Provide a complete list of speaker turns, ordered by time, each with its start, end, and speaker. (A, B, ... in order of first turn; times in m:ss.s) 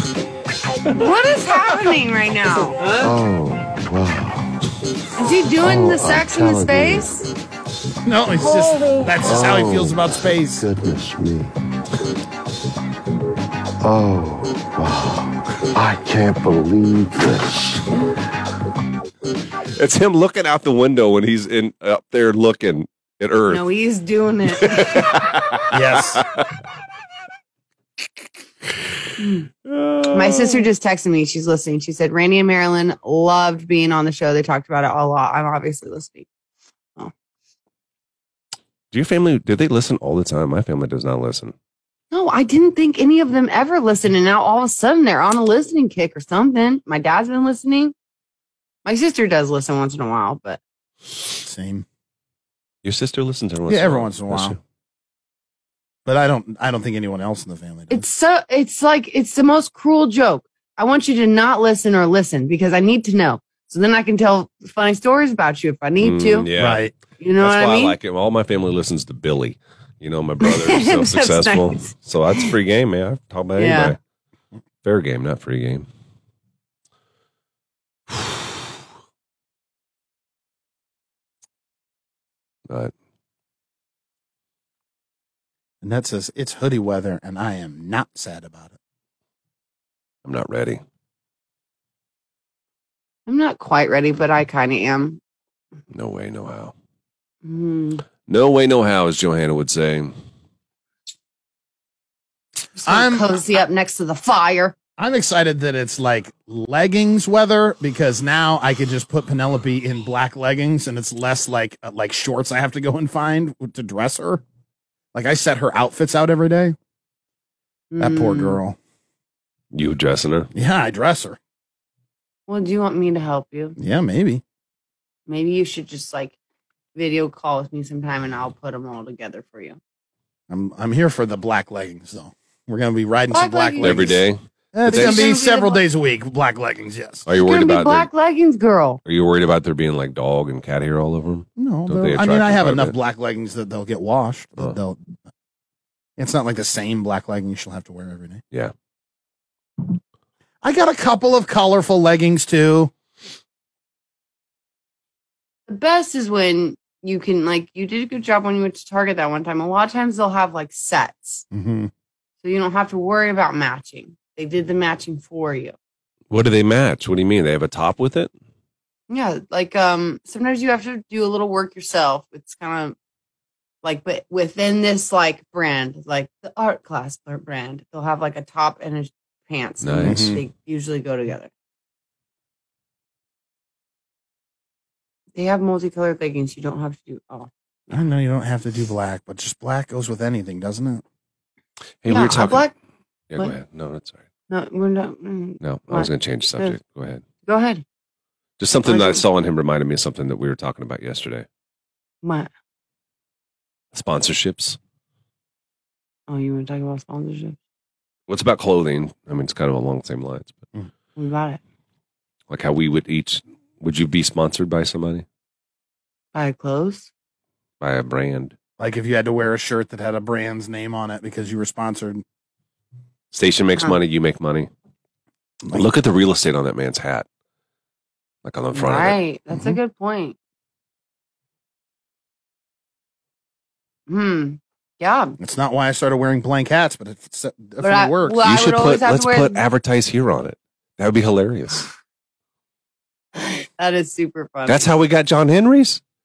0:00.9-0:02.8 A
0:02.9-0:04.6 B
0:05.2-0:07.3 A
0:05.6-0:07.2 B
0:08.0-0:10.6 C
0:09.2-0:11.5 B
0:13.8-0:17.9 B
0:19.7-0:23.6 D
0:23.5-0:25.0 A
0:24.5-0:26.4 D
0:25.7-0:26.2 C
0:29.2-0:29.5 A
0:29.6-0:30.6 D
0:30.1-0:36.3 A
0:38.9-0:41.5 D
0:42.1-0:47.9 A
0:48.8-0:50.6 A
0:51.4-0:51.8 C
0:52.8-0:54.6 D
0:53.7-0:54.6 C
0:56.0-0:58.0 C
0:57.9-1:06.5 A
1:06.0-1:06.8 D
1:06.6-1:06.9 C
1:07.2-1:08.0 A
1:07.4-1:14.0 D
1:10.4-1:12.5 A
1:13.6-1:14.0 A
1:14.8-1:15.9 D
1:22.7-1:22.9 D
1:25.8-1:28.8 C
1:30.2-1:30.8 D
1:33.2-1:35.2 A
1:35.9-1:36.7 D
1:37.4-1:38.0 A
1:38.2-1:40.1 D
1:42.8-1:44.7 A
1:42.9-1:43.3 C
1:45.0-1:54.4 C
1:55.1-1:56.7 C
1:57.9-1:58.6 A
1:58.0-1:58.8 C
1:59.7-2:00.5 D
2:00.5-2:01.4 C
2:02.5-2:03.8 A
2:03.8-2:04.4 C
2:05.3-2:06.4 A
2:06.9-2:09.8 A
2:10.5-2:14.2 C
2:13.3-2:14.2 A
2:13.8-2:15.3 D
2:14.7-2:17.3 C
2:14.9-2:15.8 A
2:17.2-2:18.1 D
2:17.3-2:19.0 A
2:19.0-2:23.0 D
2:21.6-2:25.2 C
2:26.2-2:28.4 C
2:30.6-2:32.9 C
2:35.7-2:41.4 A
2:41.5-2:41.9 C
2:42.4-2:45.8 A
2:46.3-2:48.3 D
2:49.1-2:53.0 A
2:53.8-3:01.5 A
2:59.8-3:00.4 D
3:00.0-3:00.4 C
3:05.4-3:07.5 A
3:07.9-3:11.0 C
3:12.0-3:12.7 D
3:12.1-3:12.7 A
3:13.3-3:14.2 D
3:14.5-3:16.8 A
3:15.6-3:17.2 D
3:17.4-3:17.8 A
3:18.6-3:21.4 D
3:18.8-3:19.2 A
3:22.2-3:22.5 A
3:23.9-3:24.8 D
3:26.3-3:27.6 A
3:28.3-3:30.6 D
3:31.2-3:31.6 A
3:32.5-3:35.2 D
3:36.3-3:37.1 A
3:37.8-3:38.6 D
3:38.8-3:42.2 C
3:43.3-3:44.7 D
3:45.7-3:47.2 D
3:48.4-3:49.2 D
3:48.7-3:50.4 A
3:54.1-3:55.4 A
3:55.4-3:58.5 C
3:57.8-3:59.6 A
3:58.4-4:01.9 D
4:03.8-4:04.9 A
4:04.6-4:06.0 D